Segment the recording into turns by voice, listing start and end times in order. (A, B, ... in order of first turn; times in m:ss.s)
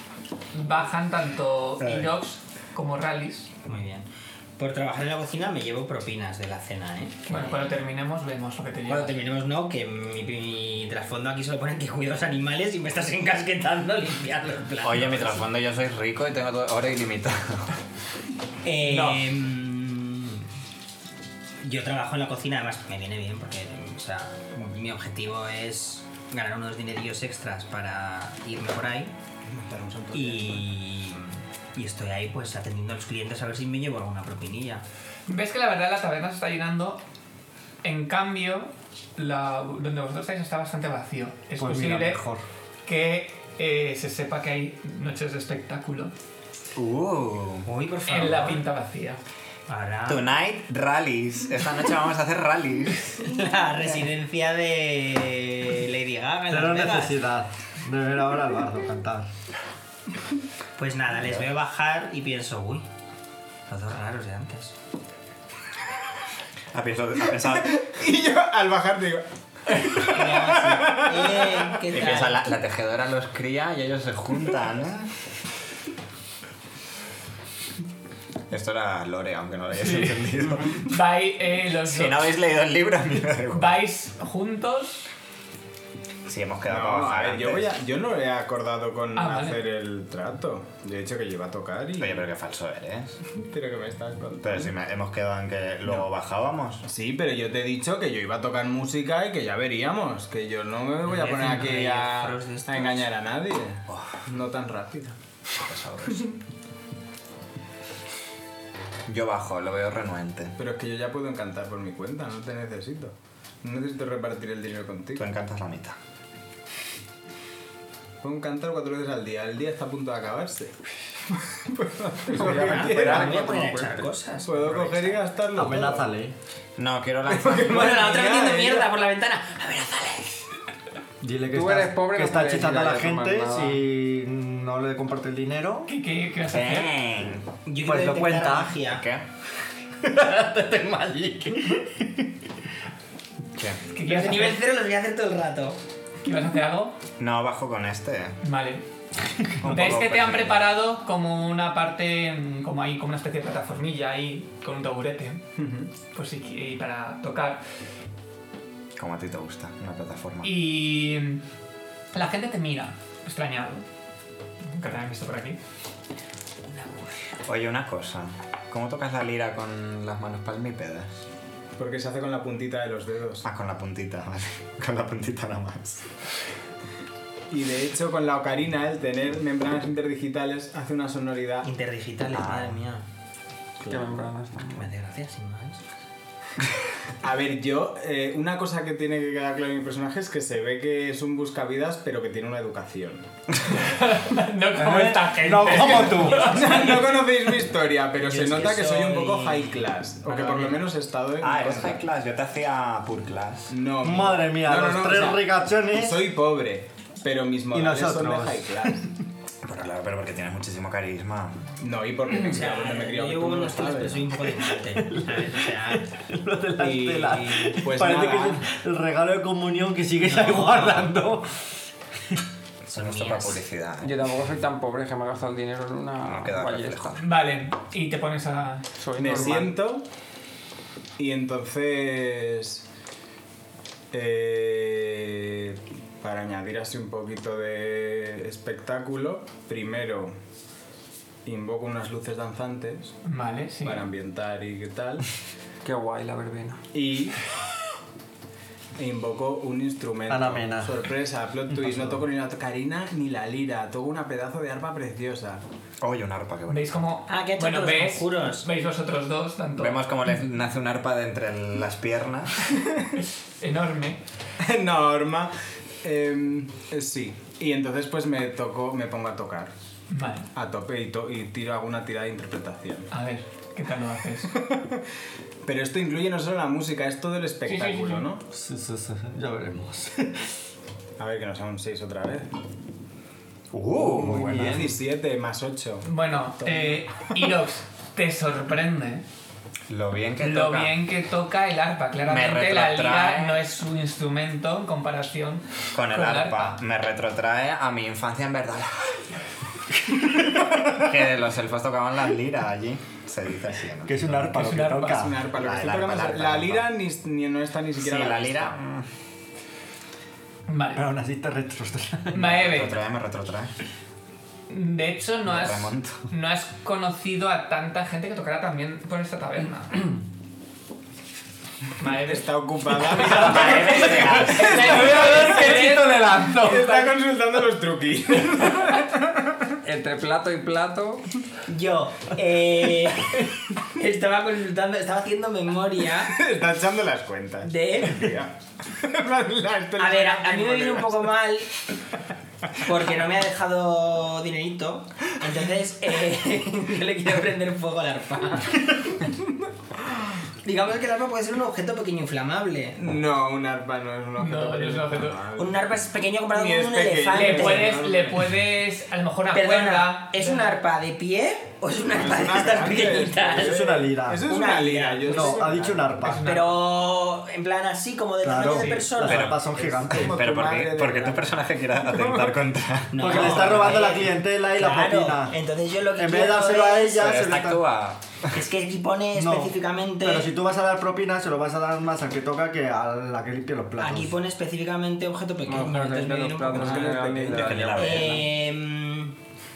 0:00.5-0:03.5 A
0:01.8-0:02.1 B
0:03.7-0:04.1 C
0:04.6-0:07.7 C
0:07.3-0:09.2 A
0:08.9-0:15.5 C
0:14.8-0:17.7 B
0:18.6-0:20.4 C
0:18.8-0:19.3 A
0:21.6-0:29.1 C
0:29.5-0:30.7 D
0:30.1-0:34.8 C
0:35.3-0:37.0 A
0:37.8-0:42.2 A
0:41.6-0:42.4 E
0:42.8-0:46.1 A
0:46.8-0:47.7 B
0:47.6-0:48.6 C
0:48.1-0:49.2 A
0:49.7-0:50.3 C
0:50.1-0:53.3 B
0:53.2-0:57.2 C
0:56.5-0:59.3 E
1:00.8-1:02.9 C
1:01.2-1:01.4 B
1:03.7-1:04.8 C
1:06.7-1:07.9 B
1:07.4-1:11.7 D
1:09.9-1:12.4 C
1:11.9-1:15.1 B
1:18.5-1:20.9 B
1:19.7-1:22.3 A
1:21.8-1:23.8 B
1:23.5-1:25.1 A
1:26.3-1:27.7 B
1:26.6-1:32.2 D
1:29.2-1:29.6 A
1:32.0-1:33.2 B
1:33.4-1:34.7 D
1:34.4-1:36.8 B
1:36.8-1:45.2 D
1:41.0-1:43.1 C
1:43.9-1:44.2 B
1:45.6-1:46.3 B
1:49.1-1:50.6 B
1:50.6-1:55.3 D
1:55.2-1:56.0 B
1:58.2-2:00.7 D
2:01.3-2:03.6 D
2:02.3-2:04.1 F
2:02.4-2:05.3 C
2:04.4-2:06.1 D
2:05.6-2:06.3 E
2:06.8-2:07.9 B
2:07.3-2:08.9 D
2:07.7-2:10.4 C
2:11.2-2:15.9 E
2:11.5-2:13.8 F
2:15.9-2:16.9 A
2:16.5-2:17.5 B
2:17.7-2:19.0 C
2:17.8-2:18.8 E
2:18.9-2:19.3 B
2:20.0-2:22.4 E
2:23.6-2:23.8 B
2:23.9-2:24.6 A
2:24.0-2:25.8 C
2:26.2-2:27.0 A
2:27.2-2:28.4 B
2:28.4-2:28.8 A
2:29.6-2:30.7 B
2:29.6-2:35.4 A
2:35.6-2:35.9 D
2:36.1-2:37.6 A
2:39.0-2:40.5 B
2:40.4-2:41.4 A
2:42.1-2:43.8 A
2:44.7-2:45.6 A
2:46.8-2:47.1 C
2:47.4-2:51.2 B
2:51.8-2:53.5 D
2:53.4-2:56.0 B
2:57.5-3:01.7 D
3:01.6-3:03.1 C
3:02.3-3:02.8 B
3:03.9-3:04.9 F
3:04.8-3:05.8 C
3:07.2-3:13.3 D
3:13.7-3:16.9 A
3:14.8-3:17.1 E
3:15.7-3:22.0 D
3:18.2-3:20.9 C
3:21.4-3:23.7 B
3:23.7-3:29.1 D
3:24.0-3:26.2 E
3:27.7-3:29.1 E
3:29.6-3:31.8 B
3:31.8-3:34.3 D
3:32.3-3:36.1 C
3:34.5-3:41.6 E
3:36.8-3:38.6 D
3:40.3-3:41.0 C
3:42.9-3:43.6 C
3:42.9-3:44.2 B
3:44.0-3:47.2 F
3:46.2-3:47.2 B
3:47.2-3:48.9 A
3:49.0-3:49.7 F
3:49.2-3:50.0 D
3:51.2-3:52.8 D
3:54.1-4:00.4 D
4:01.4-4:03.2 D
4:03.2-4:04.1 A
4:03.8-4:05.2 D
4:05.8-4:06.8 F
4:06.9-4:07.4 D
4:09.0-4:15.6 D
4:10.3-4:11.1 E
4:11.7-4:12.2 E
4:16.0-4:17.0 B
4:16.7-4:20.1 A
4:17.3-4:18.7 C
4:19.8-4:22.7 B
4:23.6-4:24.2 A
4:24.6-4:29.7 D
4:30.1-4:30.5 A
4:30.6-4:33.1 D
4:33.1-4:34.6 A
4:34.6-4:35.0 D
4:35.6-4:38.4 D
4:37.7-4:38.3 A
4:38.5-4:40.5 E
4:41.2-4:42.5 D
4:43.7-4:44.8 B
4:44.0-4:45.0 E
4:44.2-4:46.1 D
4:46.0-4:49.2 A
4:46.6-4:47.1 D
4:49.9-4:51.0 B
4:50.4-4:56.8 A
4:52.3-4:53.6 B
4:55.9-4:59.2 B
5:00.7-5:04.8 B
5:04.0-5:05.4 E
5:04.6-5:05.2 A
5:04.7-5:08.8 D
5:05.5-5:06.9 B
5:08.0-5:09.1 B
5:10.7-5:11.0 A
5:11.0-5:12.6 E
5:12.3-5:13.0 A
5:12.4-5:13.7 B
5:14.7-5:20.1 A
5:15.5-5:16.2 B
5:22.0-5:27.1 A
5:22.1-5:29.6 D
5:23.3-5:25.1 B
5:25.1-5:26.8 E
5:29.8-5:31.3 F
5:31.7-5:36.4 C
5:36.3-5:41.3 D
5:37.6-5:38.5 C
5:40.0-5:41.7 C
5:42.8-5:49.1 C
5:50.6-5:53.1 C
5:53.0-5:55.8 D
5:54.4-5:55.4 A
5:55.6-5:58.0 C
5:56.5-5:58.5 D
5:57.3-6:00.8 A
5:59.5-6:03.8 C
6:02.1-6:06.2 D
6:03.5-6:04.5 E
6:04.4-6:05.6 C
6:05.3-6:06.5 E
6:06.2-6:06.8 A
6:06.4-6:09.6 C
6:08.4-6:10.4 E
6:08.8-6:09.1 A
6:09.2-6:13.6 B
6:09.7-6:12.6 D
6:13.1-6:17.2 C
6:13.2-6:15.6 E
6:16.2-6:17.8 E
6:17.2-6:18.5 B
6:18.5-6:20.5 C
6:19.3-6:24.3 E
6:24.0-6:27.1 C
6:25.7-6:28.5 F
6:26.7-6:28.0 D
6:27.5-6:28.4 B
6:27.9-6:29.4 C